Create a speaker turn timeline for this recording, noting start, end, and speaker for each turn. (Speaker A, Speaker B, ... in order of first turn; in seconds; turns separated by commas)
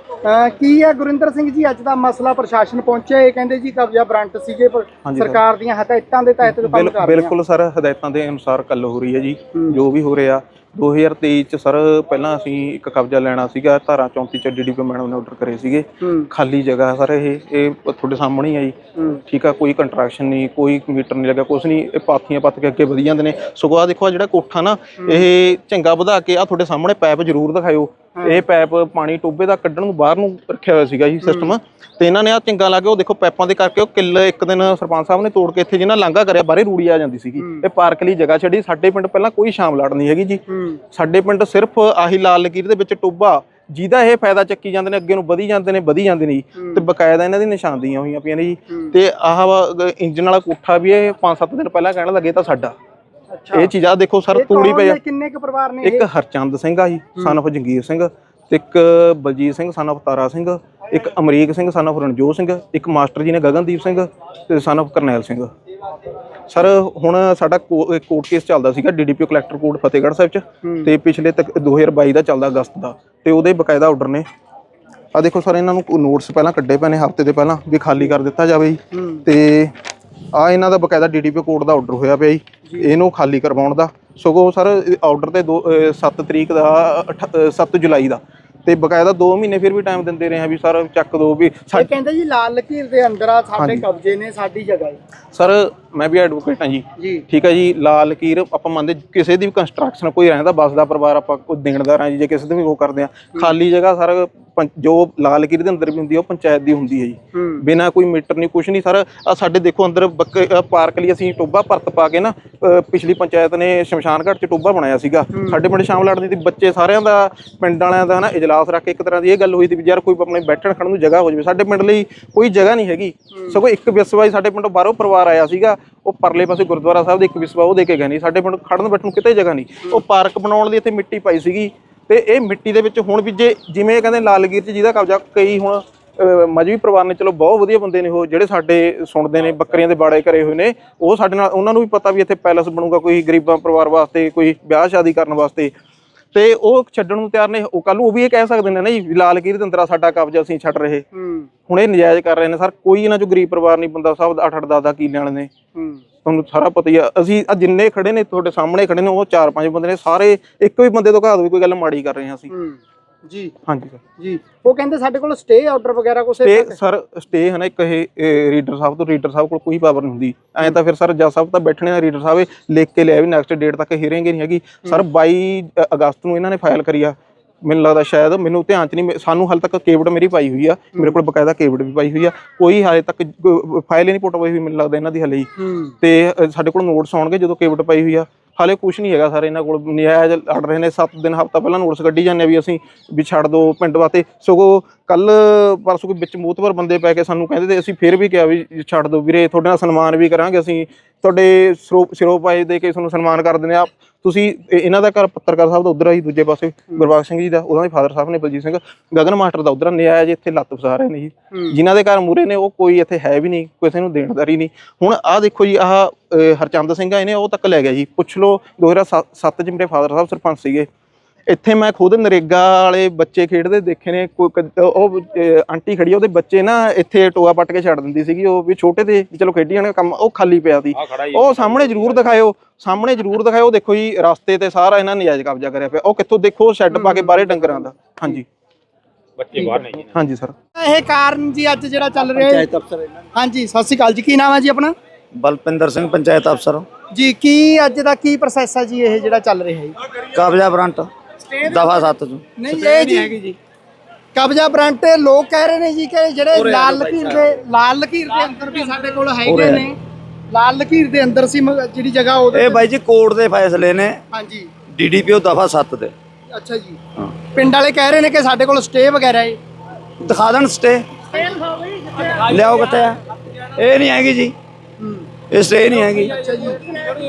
Speaker A: 0.2-7.3, Speaker B: 5.1-5.4, Speaker B: 6.4-18.8, Speaker A: 16.0-16.3, Speaker A: 19.0-19.2, Speaker B: 19.3-52.8, Speaker A: 25.0-25.3, Speaker A: 31.2-31.6, Speaker A: 37.4-37.7, Speaker A: 40.5-40.8, Speaker A: 46.6-46.9, Speaker A: 53.3-53.7, Speaker B: 53.5-55.0, Speaker A: 54.3-56.1, Speaker B: 55.8-65.5, Speaker B: 66.5-74.3, Speaker A: 70.6-70.9, Speaker B: 75.2-79.7, Speaker A: 78.9-79.2, Speaker B: 80.3-91.9, Speaker A: 91.7-95.0, Speaker B: 93.6-93.8, Speaker B: 95.3-145.7, Speaker A: 97.0-97.2, Speaker A: 107.3-107.7, Speaker A: 115.3-115.6, Speaker B: 146.3-151.1, Speaker A: 151.1-151.5, Speaker B: 151.7-155.5, Speaker A: 155.8-156.0, Speaker B: 156.2-162.5, Speaker A: 162.5-163.5, Speaker B: 163.7-164.0, Speaker A: 164.2-166.8, Speaker B: 166.4-185.5, Speaker A: 185.6-185.9, Speaker B: 186.0-220.9, Speaker B: 221.5-238.5, Speaker A: 236.9-238.4, Speaker B: 239.6-240.6, Speaker A: 240.8-242.7, Speaker C: 242.4-243.0, Speaker A: 243.4-244.9, Speaker C: 245.4-246.9, Speaker A: 247.1-250.0, Speaker C: 250.2-253.6, Speaker A: 252.6-253.5, Speaker A: 254.3-260.0, Speaker C: 256.5-257.4, Speaker C: 259.4-259.9, Speaker A: 260.5-262.9, Speaker C: 262.5-264.2, Speaker A: 264.3-264.7, Speaker C: 264.9-266.1, Speaker A: 266.5-267.0, Speaker A: 267.5-269.6, Speaker C: 270.2-274.5, Speaker A: 275.0-275.3, Speaker C: 275.5-276.4, Speaker A: 276.2-277.0